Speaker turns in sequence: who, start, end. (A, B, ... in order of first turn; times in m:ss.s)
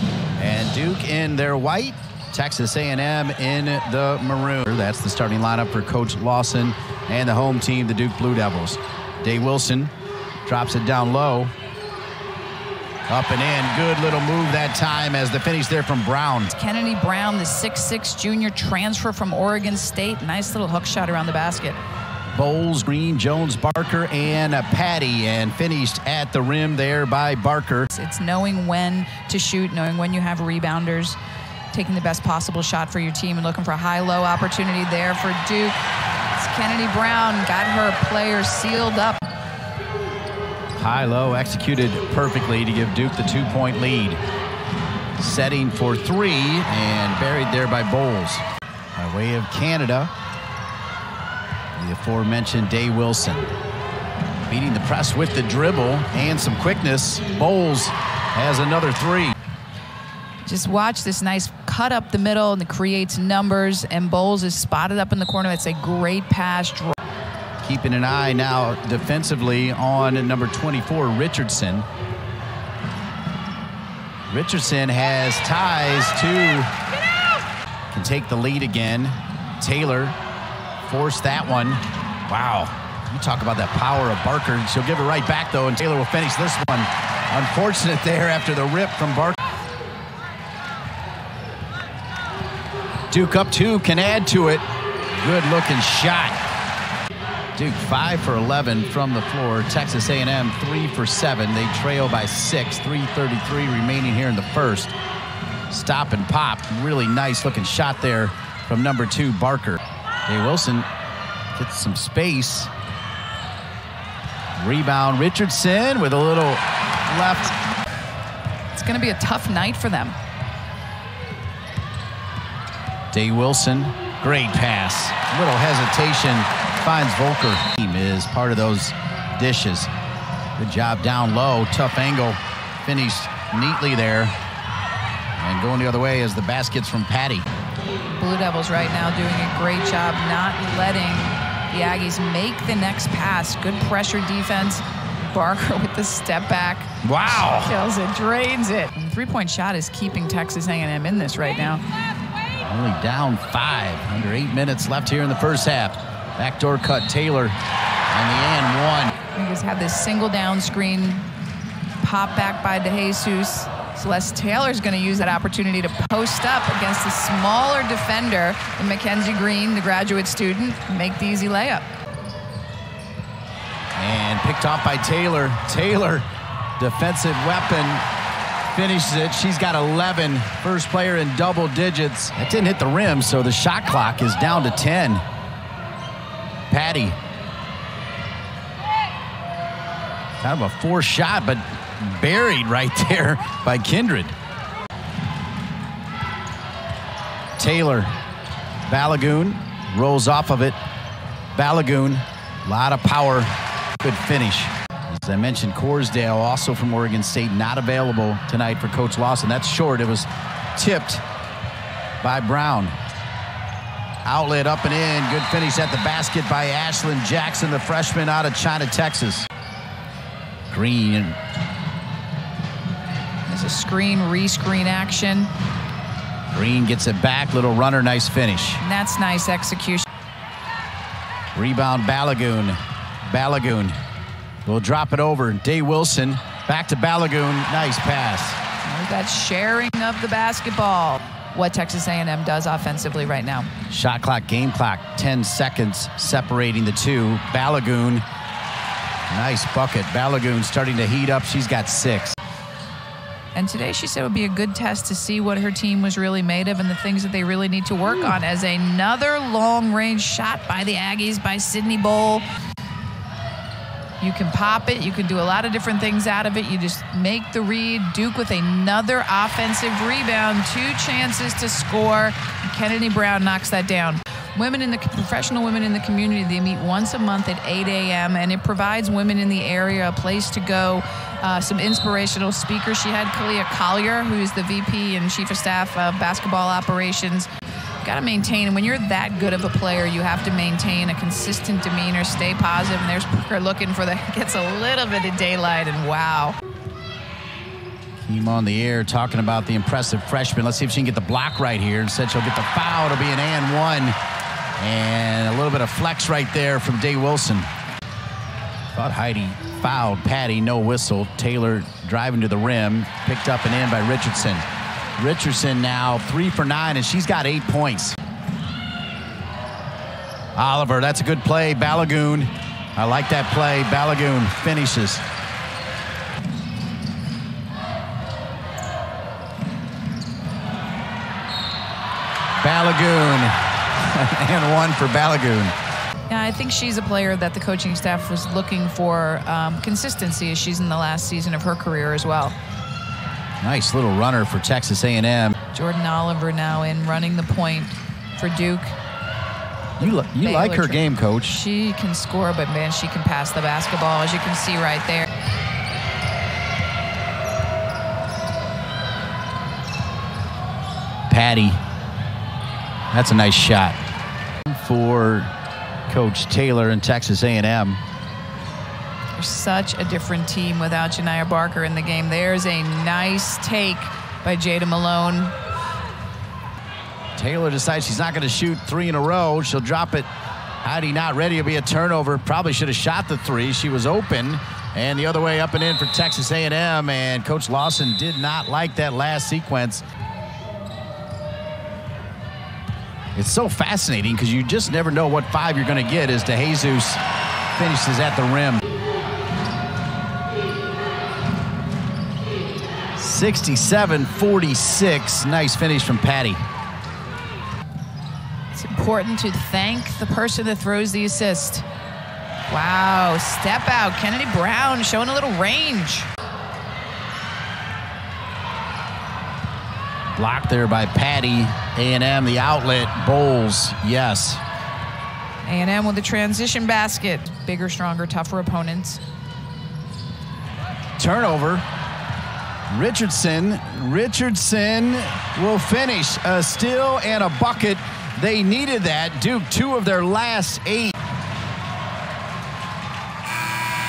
0:00.4-0:09.9 A
0:10.4-0:11.5 A
0:13.1-0:16.5 A
0:16.5-0:21.8 B
0:22.4-0:27.9 A
0:27.9-0:31.2 B
0:31.7-0:35.8 B
0:36.4-0:39.2 B
0:40.8-0:44.2 A
0:45.2-0:48.4 A
0:49.0-0:50.1 A
0:51.8-0:53.5 A
0:54.5-0:59.4 A
1:00.4-1:07.0 B
1:07.6-1:11.9 A
1:14.3-1:16.7 A
1:17.9-1:20.2 A
1:20.8-1:29.4 A
1:33.1-1:34.6 A
1:35.2-1:36.4 A
1:37.6-1:44.9 A
1:45.7-1:50.9 A
1:51.6-1:52.7 A
1:54.6-1:57.5 A
1:58.7-2:00.2 B
2:03.1-2:09.9 A
2:10.6-2:14.3 A
2:15.4-2:17.5 A
2:18.2-2:26.9 B
2:27.0-2:27.7 A
2:27.5-2:31.8 B
2:32.6-2:37.6 A
2:38.1-2:39.1 A
2:39.3-2:41.3 B
2:42.0-2:51.9 B
2:54.0-2:58.0 A
2:58.7-3:05.2 A
3:06.7-3:07.2 A
3:10.4-3:14.4 A
3:17.6-3:18.1 A
3:18.9-3:20.8 A
3:21.6-3:23.5 A
3:24.0-3:31.2 A
3:32.2-3:33.0 A
3:34.2-3:39.5 A
3:40.7-3:41.4 A
3:43.5-3:45.5 B
3:46.5-3:48.8 A
3:48.8-3:50.1 B
3:51.5-3:52.8 A
3:53.3-3:54.0 A
3:54.6-3:58.6 A
3:58.8-4:03.7 B
4:03.9-4:08.2 A
4:09.3-4:12.4 A
4:13.6-4:22.4 B
4:24.2-4:47.5 B
4:48.0-4:56.6 B
4:58.2-5:04.2 A
5:04.8-5:07.7 A
5:08.9-5:14.7 A
5:15.2-5:18.2 A
5:20.6-5:25.2 A
5:32.6-5:35.8 A
5:36.3-5:42.6 B
5:43.6-5:45.5 A
5:45.7-5:49.0 B
5:50.0-5:51.6 A
5:50.0-5:55.3 B
6:01.3-6:01.8 A
6:03.1-6:04.0 A
6:04.6-6:05.5 A
6:06.1-6:08.0 A
6:09.4-6:15.5 B
6:17.4-6:20.3 A
6:20.8-6:30.0 A
6:33.4-6:37.2 A
6:37.8-6:38.8 A
6:43.2-6:46.6 A
6:48.7-6:51.9 B
6:52.7-6:56.3 B
7:00.3-7:04.6 A
7:05.7-7:09.2 B
7:11.2-7:11.8 A
7:12.9-7:21.2 A